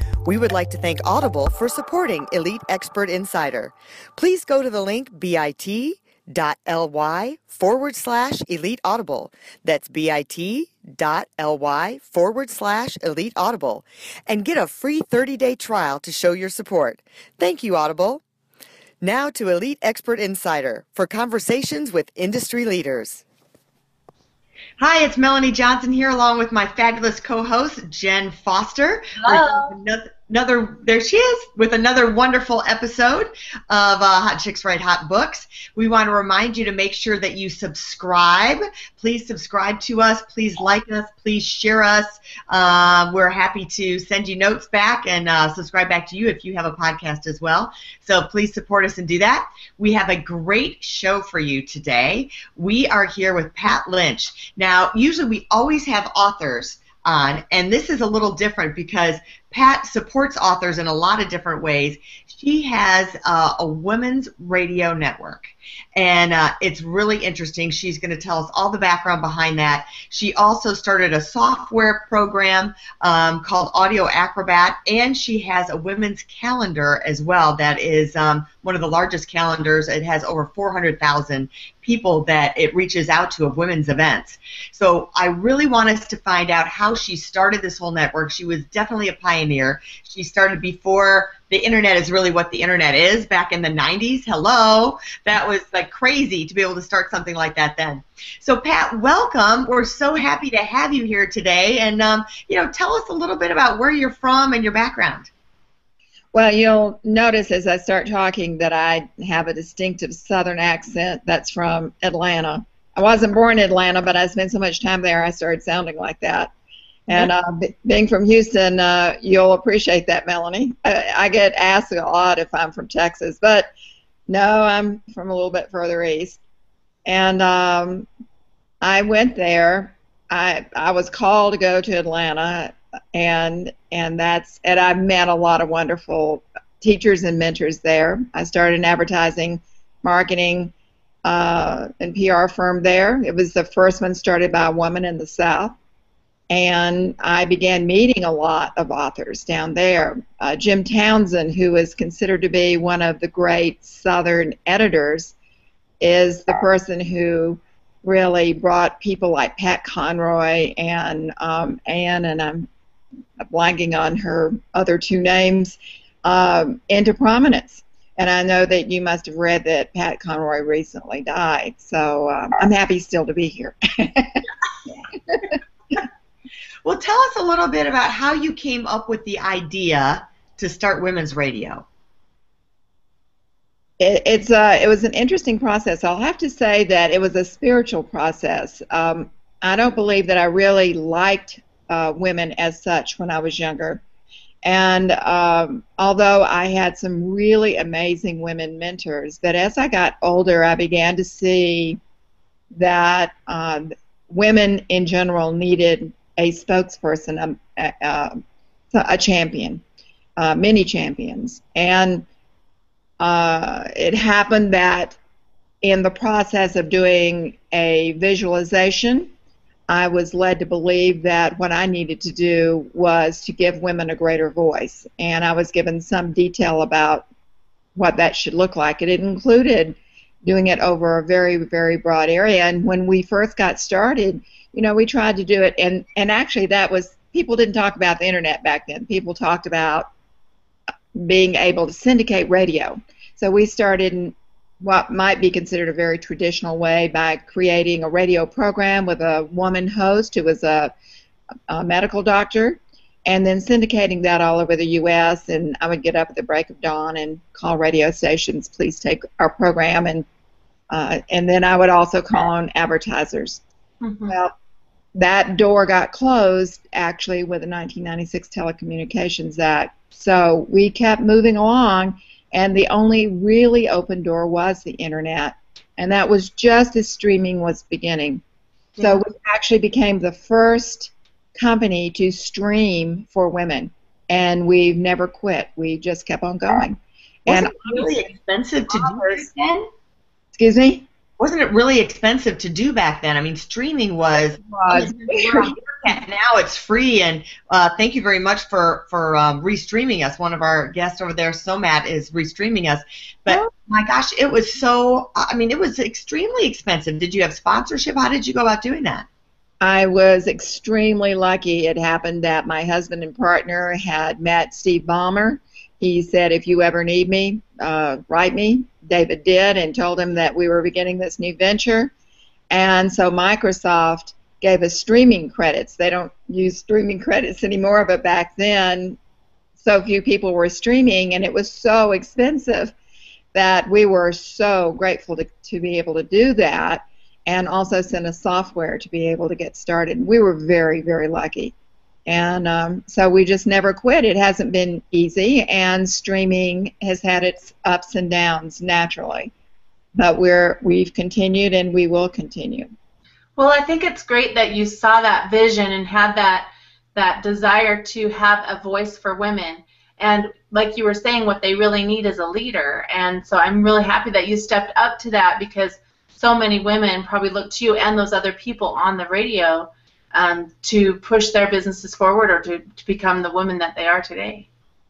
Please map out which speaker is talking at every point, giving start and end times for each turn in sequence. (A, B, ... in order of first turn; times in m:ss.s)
0:00.3-0:18.2 A
0:19.0-0:23.2 A
0:24.8-1:45.3 B
1:46.3-1:56.5 C
1:57.1-2:03.7 C
2:04.3-2:06.4 C
2:07.1-2:08.1 C
2:08.8-2:20.7 C
2:21.2-2:25.8 C
2:26.5-2:35.4 C
2:36.0-2:42.7 C
2:43.4-2:55.6 C
2:56.8-3:01.8 B
3:04.0-3:14.0 C
3:14.6-3:22.0 C
3:22.7-3:29.8 C
3:30.4-3:32.3 C
3:33.2-3:35.2 C
3:35.8-3:39.3 C
3:39.9-3:47.3 C
3:48.0-4:00.1 C
4:01.1-4:10.9 C
4:11.7-4:20.2 C
4:20.9-4:23.6 C
4:24.0-4:24.4 D
4:24.3-4:24.5 C
4:25.2-4:38.4 C
4:39.0-4:39.2 D
4:39.0-4:48.3 C
4:47.5-4:49.9 B
4:48.9-4:49.5 C
4:50.5-4:51.1 C
4:51.4-5:09.3 B
4:54.7-4:55.7 C
5:09.8-5:22.1 C
5:22.7-5:29.2 C
5:29.8-5:32.9 C
5:33.5-5:41.8 C
5:42.3-5:49.5 C
5:50.2-5:52.9 C
5:53.6-6:14.7 D